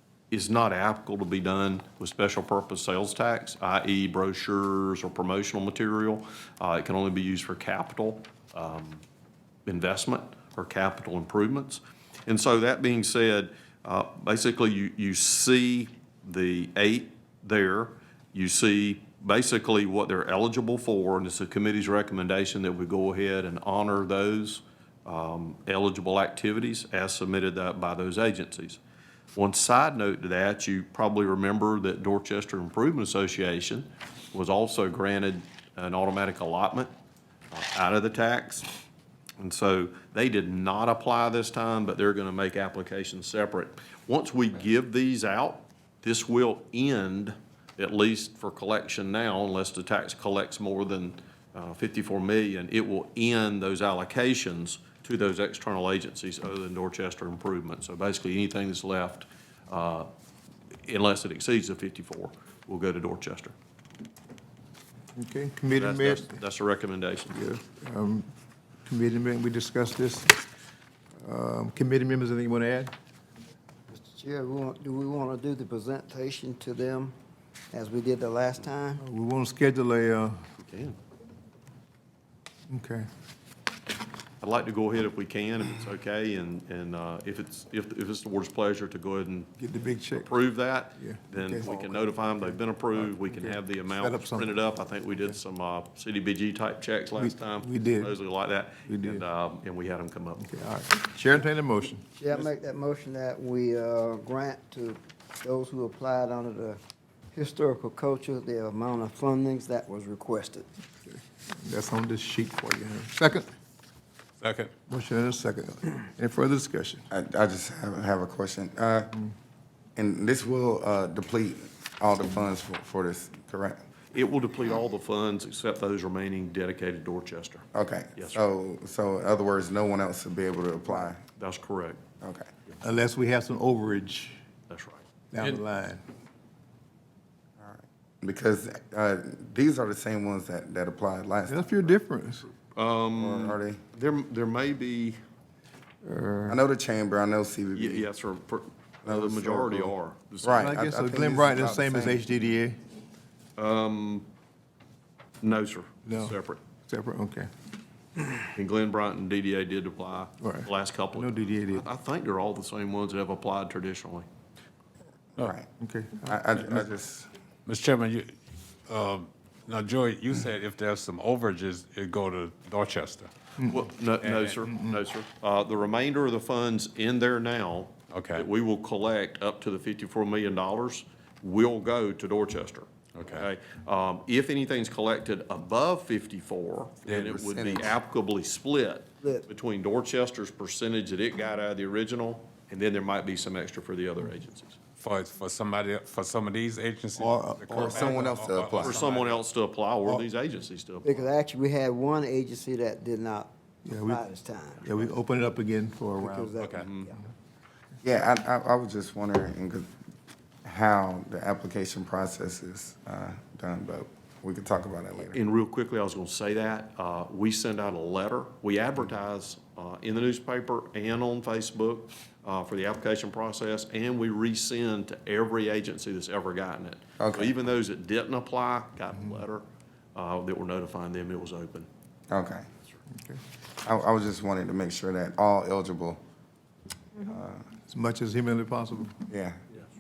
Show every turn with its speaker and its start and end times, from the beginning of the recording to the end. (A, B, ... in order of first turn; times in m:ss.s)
0:00.3-0:09.0 A
0:09.7-0:28.8 A
0:29.3-0:36.9 A
0:37.5-0:38.7 A
0:39.4-1:00.1 A
1:00.9-1:03.6 A
1:05.2-1:06.3 B
1:05.7-1:07.4 A
1:07.3-1:08.3 B
1:08.8-1:10.4 B
1:11.2-1:12.9 B
1:13.9-1:17.1 C
1:17.7-1:19.0 C
1:19.0-1:20.3 B
1:20.6-1:21.0 A
1:22.7-1:23.1 B
1:24.4-1:29.5 A
1:29.6-1:30.3 B
1:30.1-1:40.5 A
1:31.0-1:34.6 B
1:37.2-1:38.2 B
1:38.8-1:39.2 B
1:40.4-1:42.1 B
1:42.2-1:46.8 C
1:47.3-1:50.7 C
1:51.1-1:53.5 B
1:54.4-1:54.7 D
1:54.9-1:57.0 B
1:57.1-1:59.1 E
2:00.0-2:03.8 E
2:04.1-2:08.4 A
2:07.7-2:11.2 E
2:11.4-2:12.0 A
2:12.2-2:12.5 E
2:12.8-2:14.4 B
2:14.7-2:15.0 A
2:15.3-2:16.0 B
2:17.6-2:21.8 E
2:21.5-2:22.5 B
2:22.7-2:25.2 A
2:23.2-2:23.8 E
2:26.0-2:26.6 B
2:26.5-2:28.1 E
2:27.8-2:30.8 A
2:29.0-2:32.2 E
2:30.6-2:32.8 B
2:33.6-2:34.3 A
2:35.4-2:36.6 A
2:36.0-2:37.5 B
2:38.5-2:44.2 A
2:40.4-2:41.9 B
2:45.4-2:45.7 E
2:45.8-2:46.3 B
2:46.2-2:47.3 E
2:47.7-2:48.3 D
2:48.9-2:53.3 D
2:53.6-2:53.8 B
2:53.7-3:14.8 A
2:54.2-2:54.6 D
2:54.6-2:55.0 B
2:58.1-2:58.5 D
3:03.1-3:03.5 D
3:07.1-3:07.3 D
3:07.1-3:07.9 E
3:15.0-3:19.4 D
3:17.2-3:17.8 B
3:17.7-3:19.0 E
3:18.8-3:21.3 A
3:21.0-3:24.9 C
3:23.8-3:24.2 B
3:24.8-3:26.5 B
3:26.2-3:27.3 C
3:26.6-3:26.9 D
3:26.8-3:27.1 A
3:28.0-3:29.9 E
3:30.6-3:35.4 E
3:35.3-3:49.6 A
3:47.2-3:47.6 E
3:50.2-3:51.9 A
3:52.3-3:52.7 E
3:53.2-3:53.4 B
3:53.8-3:56.2 E
3:57.2-3:57.6 E
3:57.9-3:59.2 B
3:59.3-3:59.6 E